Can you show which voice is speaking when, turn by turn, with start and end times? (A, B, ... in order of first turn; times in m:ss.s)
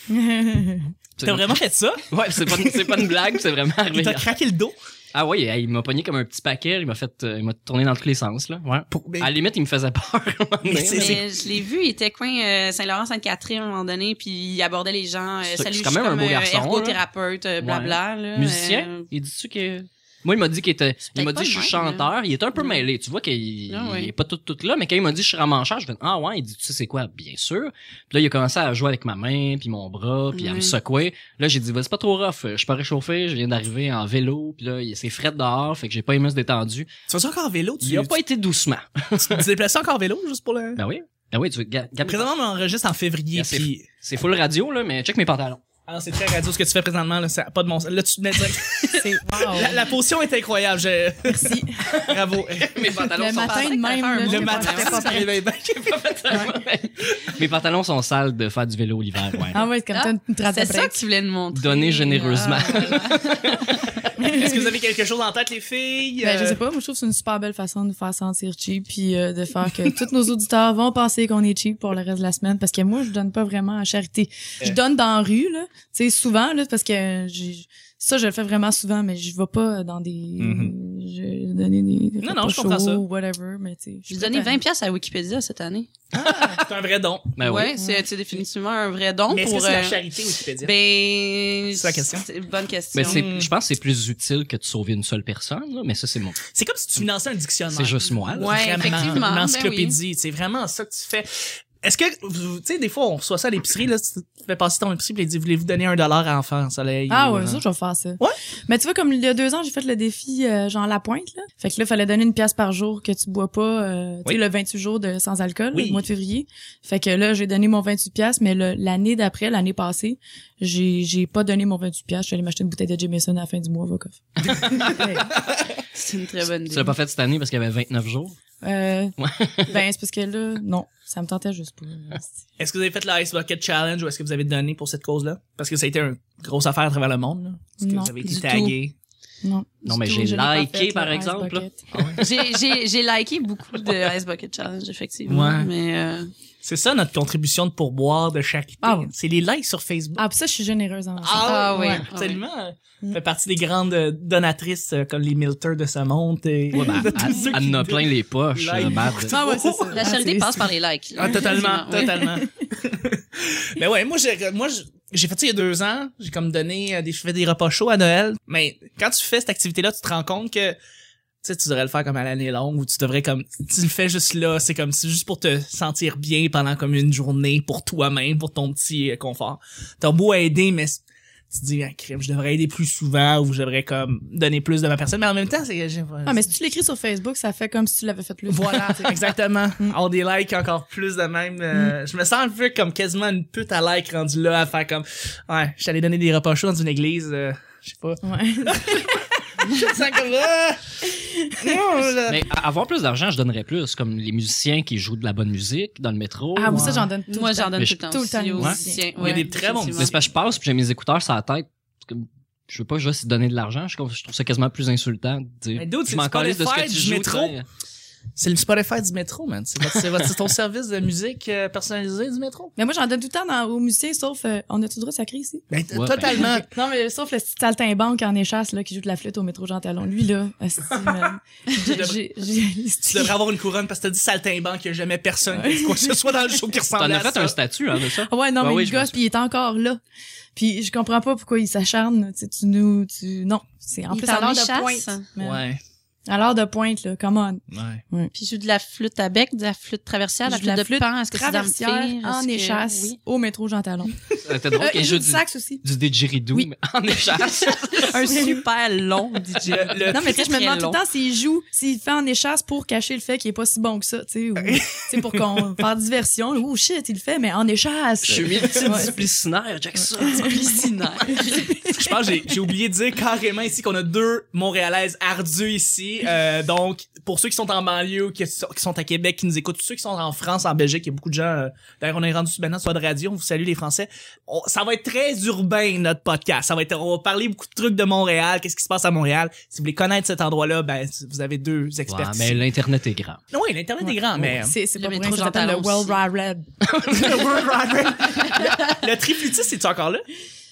0:00.1-0:00.9 A
0:01.2-0:04.3 B
0:01.2-0:03.1 C
0:03.9-0:04.7 C
0:05.1-0:11.2 B
0:08.9-0:09.3 C
0:10.6-0:11.2 C
0:10.9-0:19.1 D
0:15.4-0:17.0 B
0:17.6-0:36.9 B
0:21.1-0:22.8 D
0:23.7-0:24.1 D
0:30.3-0:30.7 D
0:37.1-0:38.2 C
0:37.8-0:39.4 B
0:39.2-0:40.8 C
0:40.8-0:42.3 B
0:42.0-0:43.8 C
0:43.3-0:45.6 B
0:45.8-0:53.1 C
0:48.9-0:49.9 A
0:51.2-0:52.1 A
0:52.6-0:54.1 B
0:53.0-0:55.4 A
0:53.3-0:55.2 D
0:54.2-0:55.9 C
0:55.1-0:59.7 B
0:59.5-1:01.0 A
0:59.9-1:03.6 D
1:01.5-1:03.9 B
1:04.2-1:04.7 A
1:04.2-1:06.6 C
1:06.2-1:24.6 A
1:20.4-1:20.7 C
1:22.2-1:23.0 C
1:24.1-1:25.9 D
1:26.1-1:27.4 C
1:26.2-1:26.6 A
1:27.4-1:27.8 B
1:27.4-1:33.3 D
1:27.8-1:28.0 A
1:29.3-1:30.7 C
1:31.7-1:32.2 C
1:32.9-1:36.4 B
1:33.0-1:33.5 C
1:36.5-1:47.6 C
1:37.7-1:39.2 B
1:38.3-1:40.0 D
1:47.1-2:05.3 A
1:55.7-1:56.0 C
2:04.6-2:04.9 B
2:05.9-2:06.9 D
2:06.6-2:08.4 B
2:08.6-2:12.3 A
2:09.2-2:09.8 B
2:12.6-2:18.9 C
2:17.8-2:18.1 A
2:18.2-2:18.8 D
2:19.4-2:21.8 A
2:19.8-2:21.6 B
2:21.9-2:22.3 C
2:22.2-2:26.3 D
2:25.3-2:25.7 C
2:26.6-2:30.2 C
2:28.8-2:29.1 A
2:30.2-2:32.0 A
2:31.2-2:40.2 C
2:31.3-2:32.4 D
2:36.7-2:39.4 B
2:36.8-2:37.5 A
2:39.3-2:40.6 A
2:39.9-2:42.3 D
2:41.2-2:50.8 C
2:42.0-2:42.3 A
2:51.4-3:06.4 C
3:06.2-3:10.0 A
3:08.5-3:21.0 C
3:18.2-3:19.2 A
3:21.1-3:21.7 A
3:21.6-3:22.4 C
3:22.2-3:27.1 B
3:26.6-3:29.4 A
3:26.7-3:27.1 C
3:27.3-3:30.2 D
3:29.2-3:30.1 C
3:30.0-3:37.6 B
3:35.8-3:37.5 C
3:38.4-3:42.7 C
3:39.9-3:40.2 B
3:42.8-3:45.6 A
3:45.7-3:46.7 C
3:45.9-3:46.5 B
3:46.3-3:53.4 A
3:51.7-3:52.2 C
3:53.1-3:57.6 C
3:55.5-3:56.3 A
3:57.0-3:59.2 B
3:58.0-4:00.0 A
4:00.6-4:05.6 A
4:04.1-4:05.2 D
4:05.4-4:05.8 C
4:06.3-4:08.3 A
4:07.7-4:08.0 C
4:08.3-4:13.2 D
4:10.5-4:14.2 A
4:14.4-4:18.5 B
4:14.7-4:15.8 A
4:17.9-4:21.0 D
4:18.2-4:18.6 A
4:19.6-4:20.5 C
4:20.1-4:29.2 A
4:24.6-4:25.7 C
4:28.2-4:30.7 B
4:30.0-4:30.6 A
4:30.4-4:31.7 D
4:31.3-4:32.2 A
4:31.9-4:52.6 C
4:52.1-4:53.4 B
4:53.5-4:54.8 C
4:54.0-4:56.7 A
4:55.0-4:56.2 D
4:56.9-4:57.8 B
4:57.1-5:00.2 C